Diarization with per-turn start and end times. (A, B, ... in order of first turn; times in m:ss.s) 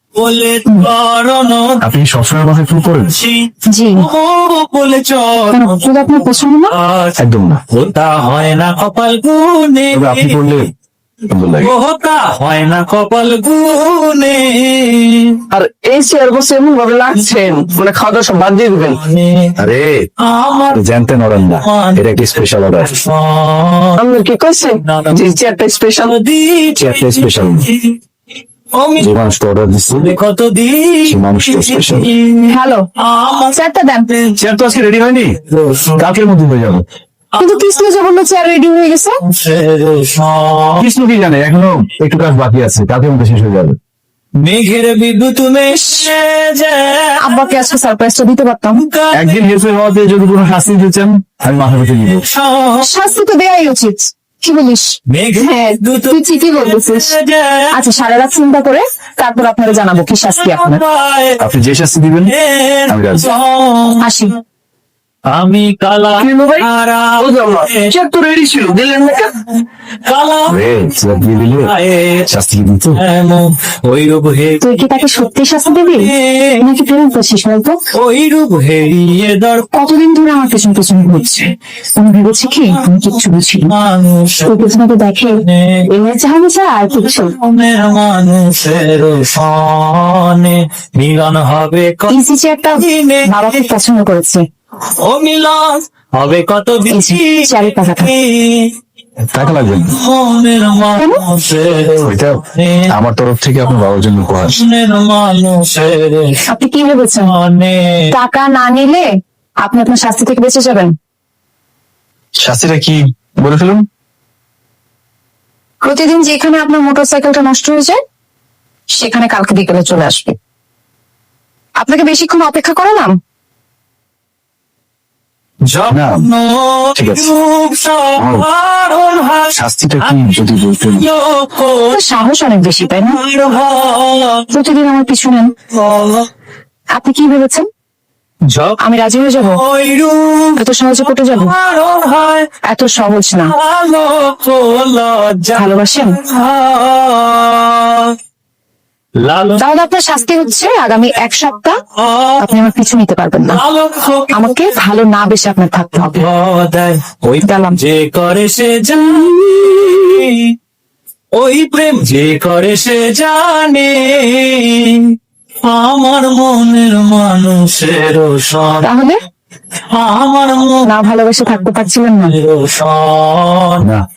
0:00.2-0:01.8 A
0:01.8-0:03.2 B
0:02.8-0:10.4 A
0:03.7-0:04.1 C
0:05.5-0:06.7 C
0:07.2-0:07.6 B
0:09.9-0:10.7 B
0:11.3-0:11.7 B
0:11.6-0:15.4 A
0:15.5-0:19.0 D
0:18.8-0:19.5 A
0:19.6-0:20.0 B
0:20.2-0:20.8 A
0:20.7-0:22.9 B
0:21.5-0:22.2 A
0:22.8-0:24.0 A
0:24.0-0:26.1 D
0:24.8-0:28.0 A
0:26.8-0:27.7 B
0:28.8-0:29.3 A
0:29.0-0:30.2 B
0:29.9-0:34.4 A
0:31.1-0:32.1 B
0:32.5-0:32.9 C
0:33.5-0:34.1 C
0:34.4-0:35.4 B
0:35.5-0:36.1 A
0:36.0-0:36.8 B
0:37.3-0:37.7 A
0:37.4-0:39.2 C
0:39.2-0:40.8 A
0:40.8-0:43.8 B
0:44.4-0:47.6 A
0:45.7-0:46.2 C
0:47.2-0:48.8 C
0:48.7-0:49.4 A
0:49.1-0:52.3 B
0:52.0-0:52.9 A
0:52.8-0:57.2 C
0:55.1-0:57.8 A
0:57.7-1:00.8 C
1:00.4-1:01.5 A
1:01.4-1:02.4 B
1:02.3-1:04.1 A
1:02.9-1:03.3 B
1:04.0-1:04.3 C
1:05.3-1:08.0 A
1:06.2-1:06.7 D
1:07.2-1:09.3 D
1:10.0-1:10.6 A
1:10.5-1:11.7 B
1:11.6-1:12.3 A
1:12.3-1:13.0 B
1:13.0-1:16.7 A
1:14.6-1:17.8 C
1:17.9-1:19.7 A
1:19.7-1:23.7 C
1:22.7-1:24.7 A
1:24.5-1:27.4 C
1:25.4-1:25.9 A
1:26.9-1:32.2 A
1:32.1-1:34.4 C
1:32.8-1:33.7 A
1:34.9-1:38.8 A
1:36.9-1:38.1 C
1:39.3-1:40.0 B
1:39.8-1:42.9 A
1:41.0-1:41.2 C
1:42.0-1:44.6 B
1:44.4-1:46.5 A
1:46.5-1:47.3 C
1:47.2-1:48.1 A
1:48.1-1:49.1 C
1:49.6-1:50.9 C
1:52.4-1:53.8 B
1:55.8-1:58.0 C
1:58.9-2:00.4 C
2:01.8-2:03.1 C
2:05.6-2:12.0 A
2:05.9-2:06.3 B
2:07.0-2:07.3 B
2:08.2-2:08.5 B
2:09.5-2:11.1 B
2:11.9-2:13.2 C
2:13.0-2:14.6 A
2:14.5-2:15.5 C
2:15.7-2:16.3 A
2:16.9-2:17.7 C
2:18.5-2:18.8 A
2:18.8-2:19.6 C
2:19.4-2:22.6 A
2:20.6-2:21.6 C
2:22.6-2:23.5 C
2:23.4-2:28.2 A
2:25.6-2:26.2 C
2:29.2-2:29.6 A
2:29.6-2:31.8 C
2:31.9-2:32.6 A
2:32.4-2:33.6 C
2:33.5-2:34.7 A
2:34.3-2:36.3 C
2:36.0-2:40.5 A
2:37.4-2:37.8 C
2:39.1-2:40.1 C
2:41.4-2:48.9 A
2:48.8-2:49.2 C
2:49.9-2:50.9 A
2:50.9-2:52.3 C
2:52.2-2:53.9 A